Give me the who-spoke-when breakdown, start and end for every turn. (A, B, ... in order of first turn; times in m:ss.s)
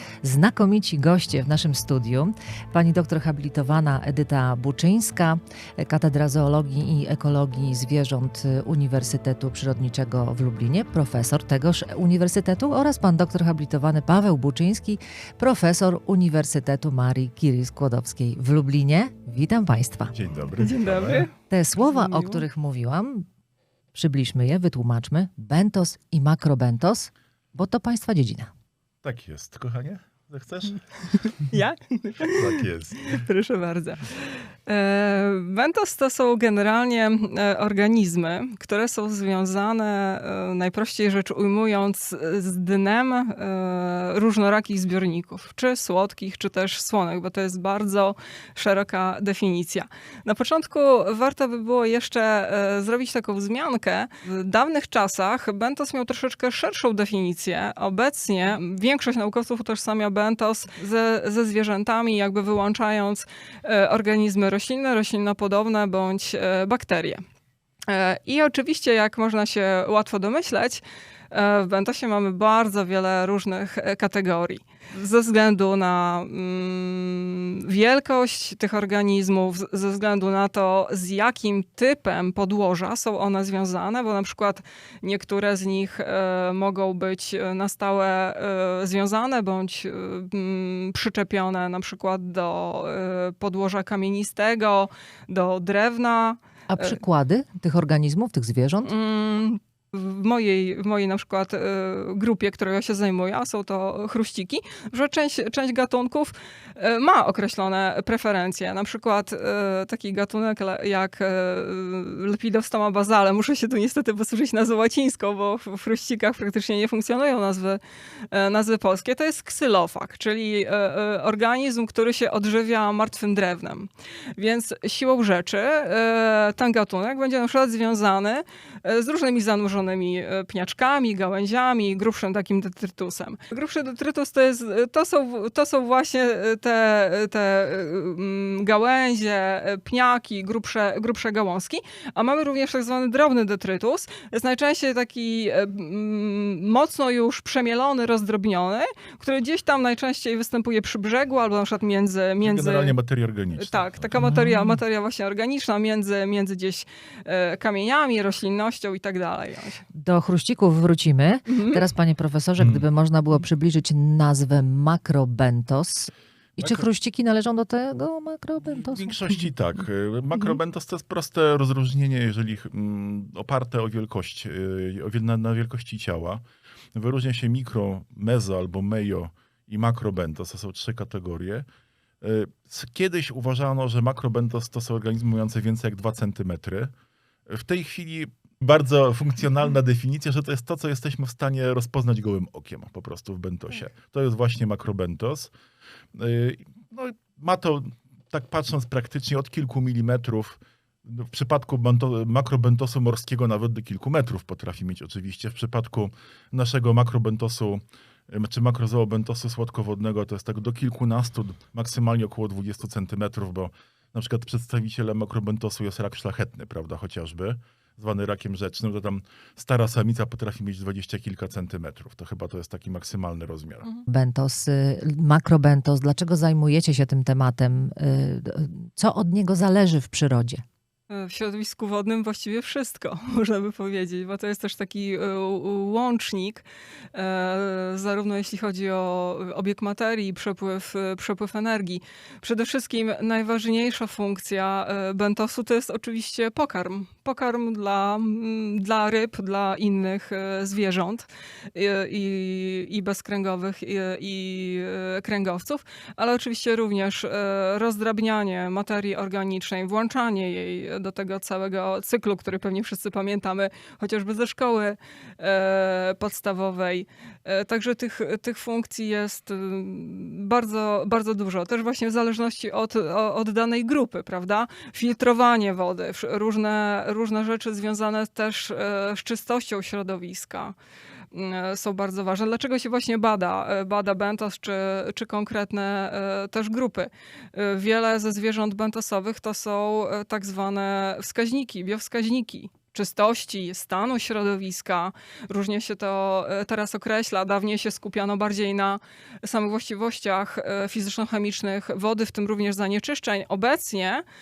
0:00.2-0:20.1 A
0:20.1-0:21.3 B
0:20.6-0:22.4 C
0:21.5-0:23.3 A
0:23.9-0:28.5 A
0:29.0-0:30.8 B
0:31.3-1:07.2 C
0:32.2-0:33.2 B
1:07.9-1:37.0 C
1:36.7-1:38.9 A
1:38.8-2:33.0 C
2:32.4-2:34.2 B
2:33.5-2:39.8 C
2:34.2-2:34.8 A
2:39.9-2:49.2 A
2:41.4-2:41.9 C
2:42.6-2:42.8 B
2:46.6-2:46.9 B
2:48.9-2:56.4 B
2:56.9-3:01.7 B
3:02.2-3:06.9 B
3:07.5-3:15.5 B
3:16.1-3:43.9 B
3:44.0-3:50.6 A
3:51.1-4:40.7 C
4:41.3-5:04.2 C